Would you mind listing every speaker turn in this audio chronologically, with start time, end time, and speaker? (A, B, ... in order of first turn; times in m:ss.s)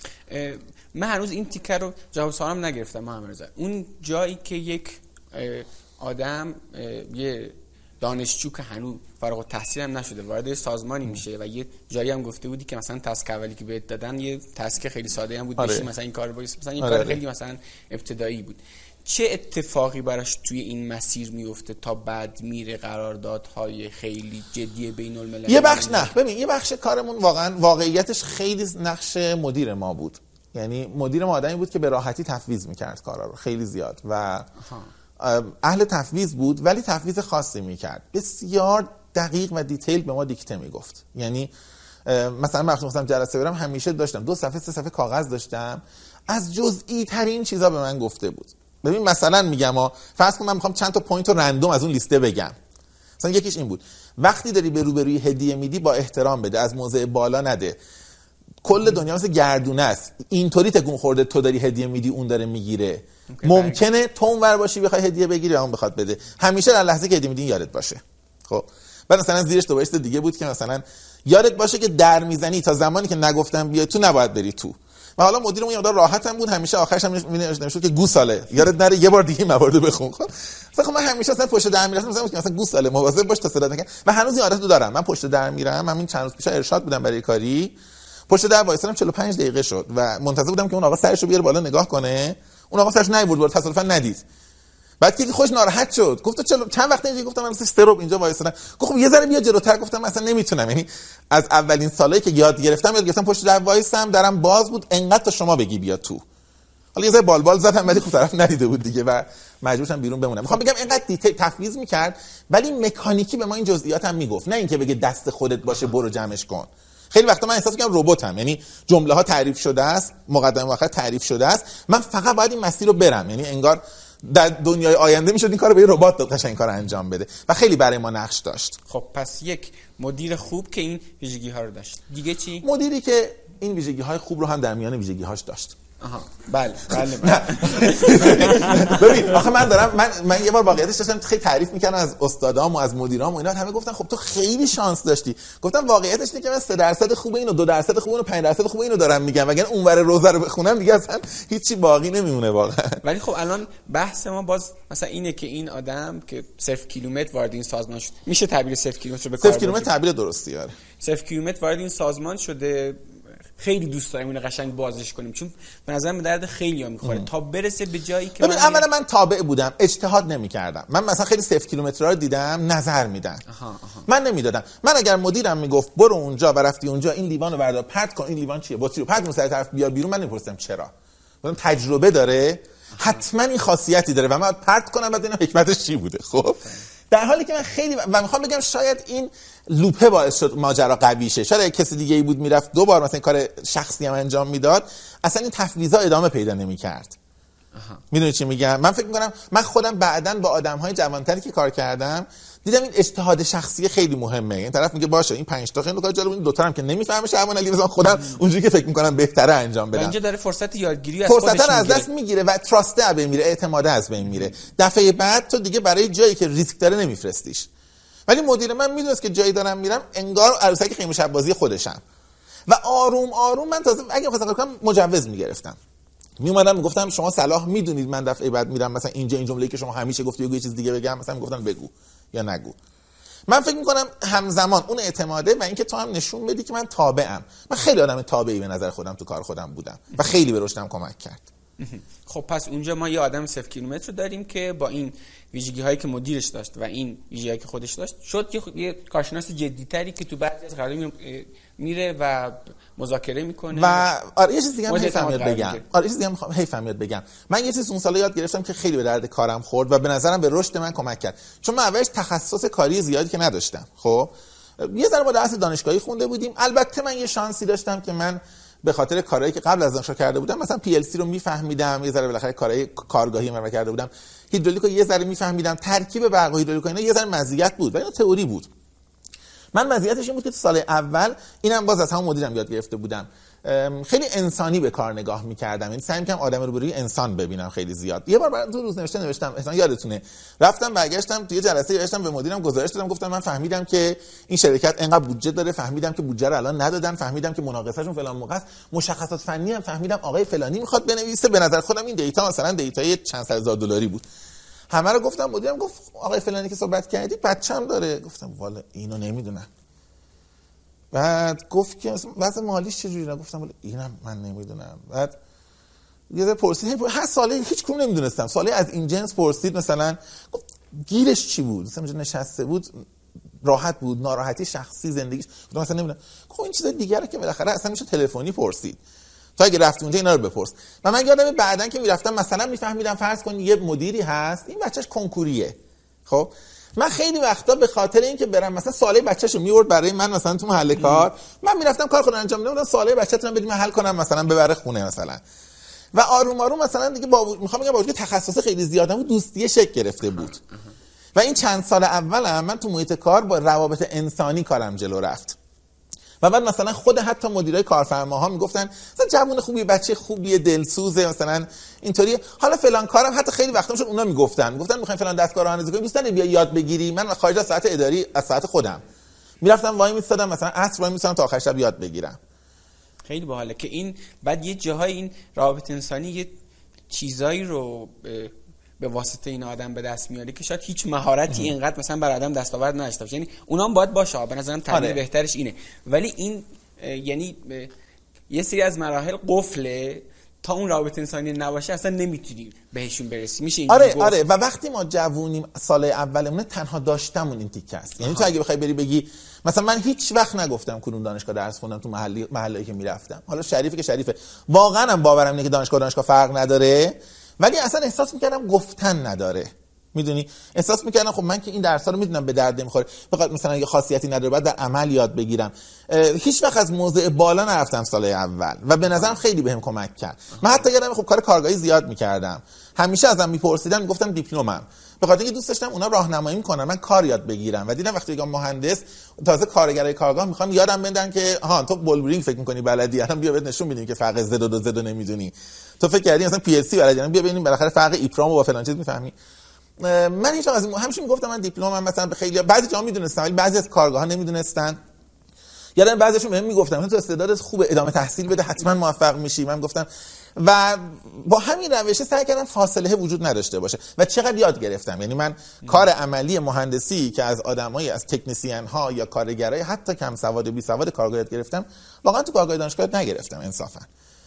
0:00.3-0:26.1 A
0:15.6-0:15.8 B
0:16.8-0:17.2 B
0:25.5-0:34.5 B
0:34.6-0:34.9 A
0:35.2-0:41.5 B
0:42.0-0:52.6 B
0:53.2-0:57.8 B
0:58.6-1:27.7 B
1:03.3-1:03.8 A
1:28.3-1:34.2 B
1:35.0-1:46.2 B
1:46.9-2:08.8 B
2:08.9-2:12.7 A
2:12.6-2:15.8 B
2:16.0-2:19.4 A
2:16.9-2:33.0 B
2:33.0-2:39.9 A
2:39.4-2:40.7 B
2:41.0-2:43.0 A
2:43.6-2:48.9 A
2:48.4-2:53.4 B
2:53.5-2:54.1 A
2:54.1-3:00.9 B
3:01.4-3:17.2 B
3:03.0-3:03.2 A
3:17.7-3:18.0 A
3:18.1-3:30.1 B
3:29.9-3:32.1 A
3:31.3-3:37.7 B
3:38.3-3:42.0 B
3:42.7-3:45.8 B
3:46.4-3:52.8 B
3:53.5-4:01.5 B
4:01.8-4:14.1 A
4:13.7-4:38.7 B
4:14.9-4:15.8 A
4:39.7-5:04.2 B
5:04.9-5:09.7 B
5:11.1-5:15.4 B
5:16.3-5:22.9 B
5:23.6-5:29.0 B
5:29.6-5:35.8 B
5:36.3-5:45.4 B
5:41.0-5:41.3 A
5:46.1-5:50.6 B
5:50.4-5:50.7 A
5:51.3-5:55.6 B
5:56.4-6:09.0 B
6:09.6-6:12.4 B
6:13.2-6:16.5 A
6:17.1-6:27.9 A
6:24.9-6:25.2 B
6:28.5-6:34.4 A
6:33.9-7:19.3 B
6:38.2-6:38.5 A
7:00.6-7:00.8 A
7:20.0-7:25.0 B
7:26.0-7:44.1 B